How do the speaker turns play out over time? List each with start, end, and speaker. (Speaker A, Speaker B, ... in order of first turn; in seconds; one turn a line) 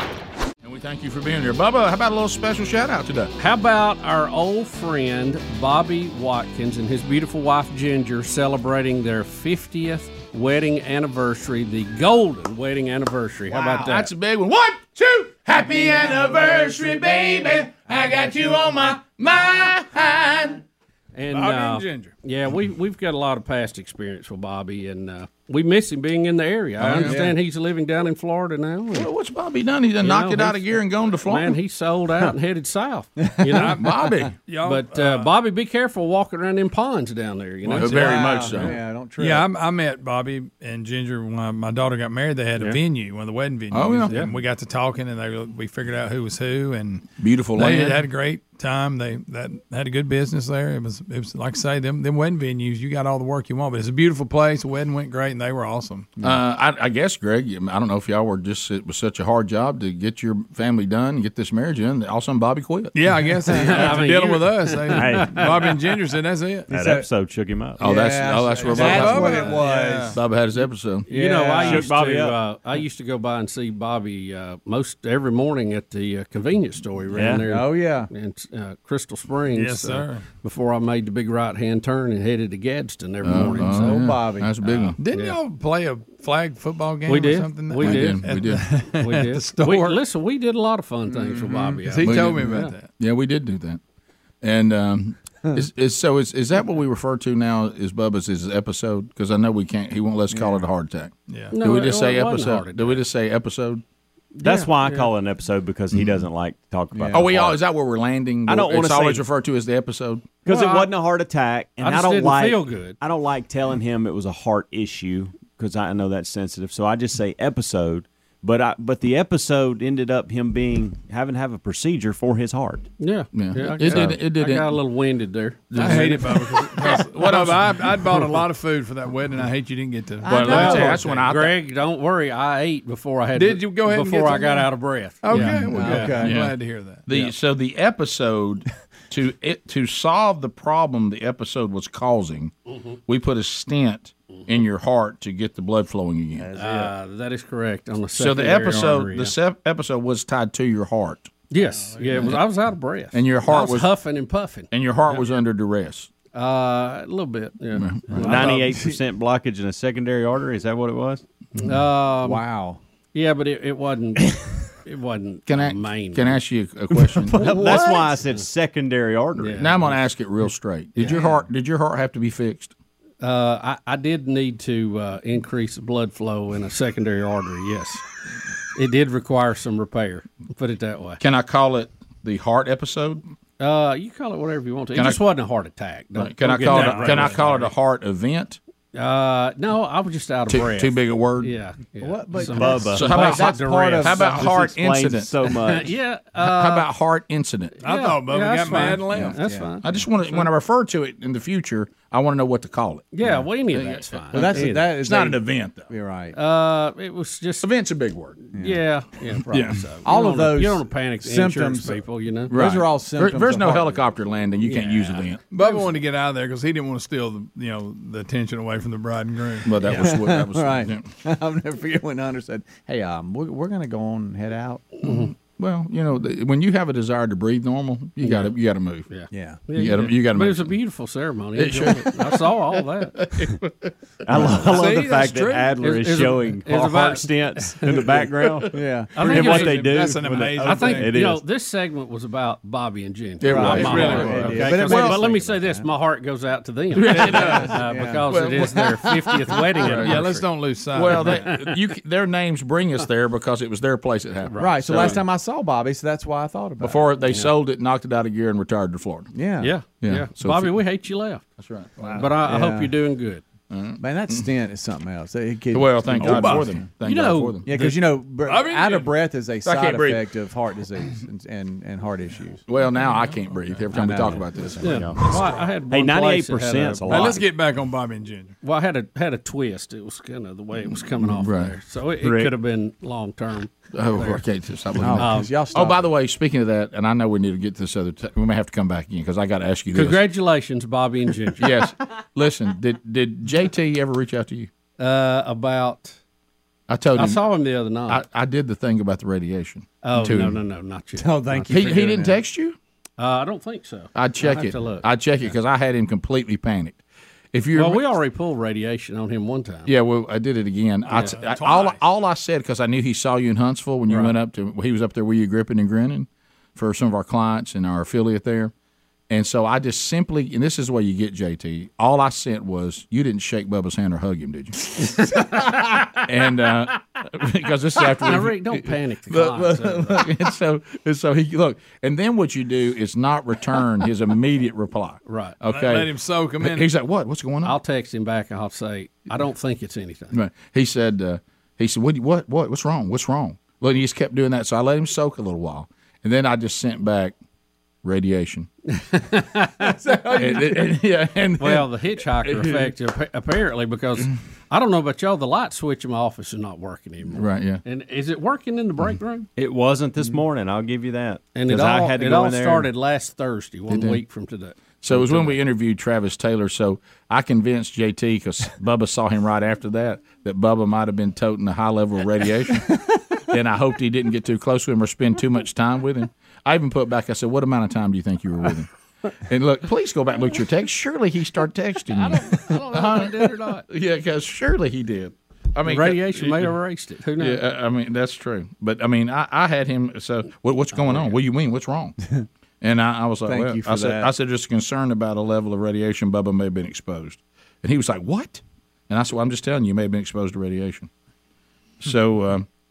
Speaker A: 0.6-3.3
Speaker B: 3.4-14.1
Speaker A: 13.5-20.6
Speaker B: 21.1-29.1
Speaker C: 21.3-22.1
Speaker A: 26.9-27.2
Speaker D: 26.9-27.4
Speaker A: 28.9-31.6
Speaker B: 30.0-33.8
Speaker A: 33.5-34.4
Speaker C: 34.5-35.3
Speaker B: 34.6-38.7
Speaker A: 37.7-38.8
Speaker D: 37.7-39.5
Speaker C: 39.2-56.1
Speaker A: 43.7-44.4
Speaker A: 47.2-48.0
Speaker A: 56.2-63.0
Speaker C: 62.9-66.7
Speaker A: 63.5-63.8
Speaker B: 63.6-65.9
Speaker E: 64.9-65.7
Speaker E: 66.7-67.8
Speaker D: 66.7-67.1
Speaker D: 67.8-70.2
Speaker A: 67.8-71.1
Speaker C: 68.7-70.2
Speaker B: 71.1-84.0
Speaker D: 71.1-71.9
Speaker E: 71.6-72.4
Speaker E: 77.1-77.4
Speaker D: 77.4-78.1
Speaker C: 79.5-80.3
Speaker A: 83.2-85.0
Speaker D: 83.4-84.6
Speaker B: 84.6-85.4
Speaker C: 85.0-90.0
Speaker B: 87.1-88.3
Speaker A: 87.8-88.7
Speaker B: 89.0-92.8
Speaker D: 91.1-91.8
Speaker C: 91.8-92.9
Speaker A: 92.0-93.8
Speaker A: 94.4-103.8
Speaker D: 100.3-100.6
Speaker C: 101.3-101.6
Speaker B: 101.5-103.0
Speaker B: 104.4-105.1
Speaker E: 104.4-107.6
Speaker A: 105.9-106.2
Speaker D: 106.9-107.3
Speaker A: 107.1-110.4
Speaker E: 108.5-109.3
Speaker E: 110.4-122.9
Speaker B: 110.5-110.9
Speaker B: 111.8-113.0
Speaker B: 123.0-127.1
Speaker A: 123.3-124.8
Speaker A: 125.7-128.1
Speaker C: 125.8-131.2
Speaker A: 130.2-131.6
Speaker B: 130.3-136.2
Speaker C: 133.3-134.7
Speaker C: 135.2-137.3
Speaker A: 135.3-142.5
Speaker D: 135.4-136.4
Speaker A: 143.1-146.5
Speaker B: 146.5-149.3
Speaker E: 146.6-146.9
Speaker A: 148.2-151.3
Speaker B: 151.5-155.2
Speaker A: 152.2-152.4
Speaker A: 153.1-153.9
Speaker A: 154.7-156.1
Speaker B: 156.3-158.6
Speaker A: 157.8-158.3
Speaker E: 158.2-161.2
Speaker C: 158.3-158.7
Speaker B: 161.6-162.4
Speaker D: 162.2-162.8
Speaker B: 163.1-166.4
Speaker A: 165.5-168.2
Speaker E: 167.4-169.6
Speaker B: 169.4-170.0
Speaker A: 169.6-172.7
Speaker B: 173.2-178.1
Speaker B: 178.7-181.2
Speaker A: 181.2-183.2
Speaker B: 183.6-187.7
Speaker A: 184.9-185.2
Speaker A: 186.2-188.6
Speaker C: 186.7-187.4
Speaker B: 188.9-194.5
Speaker A: 190.5-191.5
Speaker D: 192.0-194.6
Speaker E: 192.4-193.1
Speaker A: 192.9-195.6
Speaker E: 194.4-195.9
Speaker B: 195.6-196.9
Speaker A: 196.4-197.8
Speaker B: 197.8-200.5
Speaker C: 197.8-199.4
Speaker D: 198.9-199.7
Speaker A: 199.8-203.1
Speaker B: 203.1-204.9
Speaker A: 203.7-205.9
Speaker D: 204.3-206.4
Speaker B: 206.3-207.7
Speaker A: 207.6-208.4
Speaker B: 208.4-212.5
Speaker D: 208.5-208.8
Speaker A: 209.5-209.9
Speaker D: 210.0-214.0
Speaker A: 212.5-215.5
Speaker B: 214.6-215.3
Speaker C: 215.5-219.7
Speaker A: 219.6-221.1
Speaker B: 219.8-220.1
Speaker D: 219.9-224.9
Speaker B: 225.0-225.3
Speaker A: 225.1-229.1
Speaker B: 229.1-233.3
Speaker D: 229.3-229.6
Speaker A: 229.7-230.8
Speaker A: 231.6-232.5
Speaker A: 233.2-234.6
Speaker E: 234.3-241.4
Speaker C: 234.7-235.8
Speaker B: 235.8-238.3
Speaker D: 238.7-240.2
Speaker B: 239.2-239.8
Speaker C: 239.2-241.2
Speaker B: 240.6-251.8
Speaker A: 243.4-245.2
Speaker D: 243.4-245.9
Speaker C: 243.7-244.6
Speaker A: 246.9-248.9
Speaker D: 247.1-249.6
Speaker C: 247.4-247.7
Speaker A: 249.8-255.2
Speaker C: 249.8-251.4
Speaker B: 254.4-255.2
Speaker D: 254.6-257.1
Speaker A: 256.8-259.3
Speaker B: 257.3-257.5
Speaker D: 259.3-259.7
Speaker B: 259.6-261.5
Speaker A: 260.0-260.8
Speaker A: 261.6-262.3
Speaker D: 262.0-262.9
Speaker B: 262.1-263.4
Speaker A: 263.7-264.5
Speaker D: 264.0-266.9
Speaker A: 265.7-267.7
Speaker C: 266.2-266.6
Speaker B: 267.0-268.0
Speaker D: 267.6-272.6
Speaker C: 268.4-269.1
Speaker A: 269.6-270.2
Speaker A: 272.7-275.0
Speaker D: 273.9-275.0
Speaker B: 274.8-277.4
Speaker E: 274.8-275.2
Speaker E: 275.9-277.5
Speaker C: 277.1-278.5
Speaker B: 278.6-284.4
Speaker A: 280.9-281.7
Speaker E: 282.2-282.5
Speaker A: 283.9-290.2
Speaker D: 285.0-286.1
Speaker B: 285.2-285.6
Speaker B: 289.9-291.8
Speaker A: 291.6-294.7
Speaker B: 295.0-296.2
Speaker A: 296.9-297.4
Speaker B: 297.1-298.2
Speaker A: 298.1-300.6
Speaker B: 300.0-302.2
Speaker D: 301.2-302.4
Speaker A: 301.7-302.8
Speaker B: 303.2-305.6
Speaker A: 304.1-307.0
Speaker A: 307.5-308.1
Speaker B: 307.8-309.9
Speaker A: 309.9-318.7
Speaker C: 311.1-312.0
Speaker B: 314.1-314.3
Speaker A: 319.3-325.0
Speaker A: 325.7-337.8
Speaker B: 328.2-330.3
Speaker B: 335.3-335.6
Speaker C: 335.7-336.9
Speaker B: 337.6-340.4
Speaker A: 340.3-347.4
Speaker A: 348.0-348.7
Speaker B: 349.0-350.6
Speaker D: 350.0-350.6
Speaker A: 350.3-352.9
Speaker B: 351.6-359.5
Speaker A: 357.3-357.8
Speaker E: 359.6-362.9
Speaker B: 361.6-365.6
Speaker A: 363.9-364.2
Speaker A: 365.0-378.9
Speaker A: 379.5-386.8
Speaker B: 382.1-383.9
Speaker B: 385.9-387.6
Speaker A: 387.4-392.2
Speaker B: 391.0-391.4
Speaker A: 392.8-401.1
Speaker D: 393.5-394.3
Speaker A: 402.0-402.7